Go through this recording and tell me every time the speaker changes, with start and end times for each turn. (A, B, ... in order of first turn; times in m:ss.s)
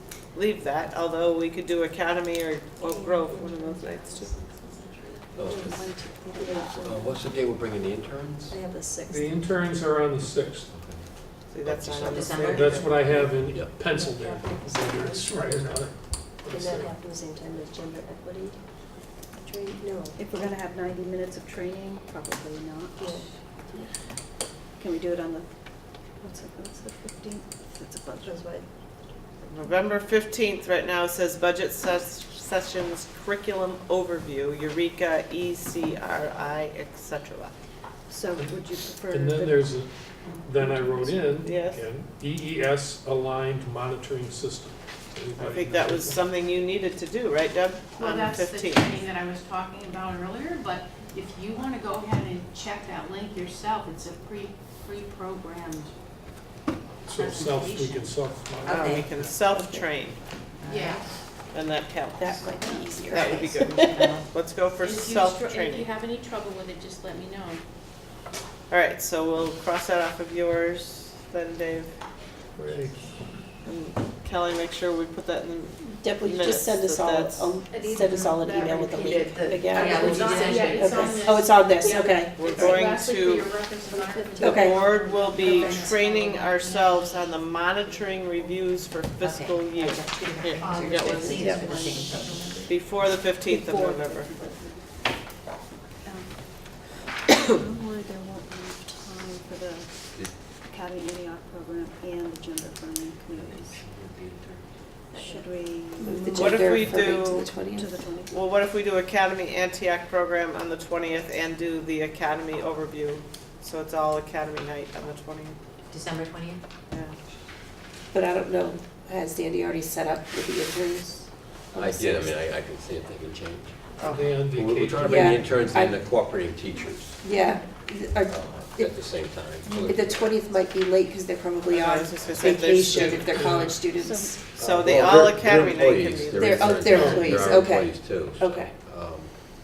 0:00.3-0:04.3 A
0:02.8-0:07.2 B
0:05.4-0:06.0 C
0:05.4-0:06.8 D
0:06.8-0:08.6 C
0:08.5-0:09.3 B
0:09.1-0:10.7 E
0:10.7-0:13.8 C
0:11.5-0:13.0 A
0:12.1-0:12.6 F
0:12.3-0:17.0 E
0:13.8-0:15.8 B
0:16.4-0:20.2 B
0:20.1-0:23.2 D
0:23.0-0:23.9 B
0:24.7-0:28.4 D
0:28.2-0:28.8 B
0:29.4-0:37.6 A
0:38.1-0:41.2 D
0:38.4-0:46.4 E
0:41.4-0:41.9 A
0:45.4-0:49.0 A
0:48.0-0:55.9 G
0:57.0-0:59.4 E
0:57.1-0:58.2 G
0:58.6-1:00.4 A
0:58.7-0:59.0 F
0:59.5-0:59.8 H
1:00.6-1:01.0 F
1:00.7-1:01.1 G
1:01.5-1:05.9 A
1:02.2-1:03.7 H
1:02.6-1:03.0 D
1:04.8-1:07.6 G
1:08.7-1:12.0 A
1:12.5-1:13.3 E
1:13.6-1:17.6 A
1:15.8-1:22.8 H
1:18.0-1:27.4 G
1:19.5-1:20.2 B
1:19.8-1:20.8 F
1:22.3-1:23.6 A
1:23.8-1:24.6 B
1:24.4-1:24.9 H
1:24.5-1:32.1 A
1:29.2-1:32.5 F
1:30.7-1:31.4 G
1:31.3-1:31.7 H
1:32.6-1:34.3 A
1:33.4-1:34.7 D
1:36.0-1:36.8 D
1:37.4-1:43.8 D
1:43.3-1:44.7 C
1:45.1-1:48.4 D
1:45.1-1:45.6 B
1:46.0-1:48.0 H
1:46.3-1:47.5 A
1:48.3-1:55.6 A
1:55.9-1:56.6 F
1:56.9-1:57.2 A
1:58.1-2:02.4 H
2:01.7-2:07.2 C
2:04.0-2:04.3 A
2:04.0-2:05.6 E
2:05.0-2:06.0 H
2:07.2-2:14.4 H
2:08.3-2:10.4 C
2:11.6-2:13.3 A
2:12.8-2:13.8 E
2:13.9-2:14.4 D
2:14.6-2:17.4 A
2:14.6-2:19.4 C
2:16.3-2:18.7 H
2:16.9-2:17.4 E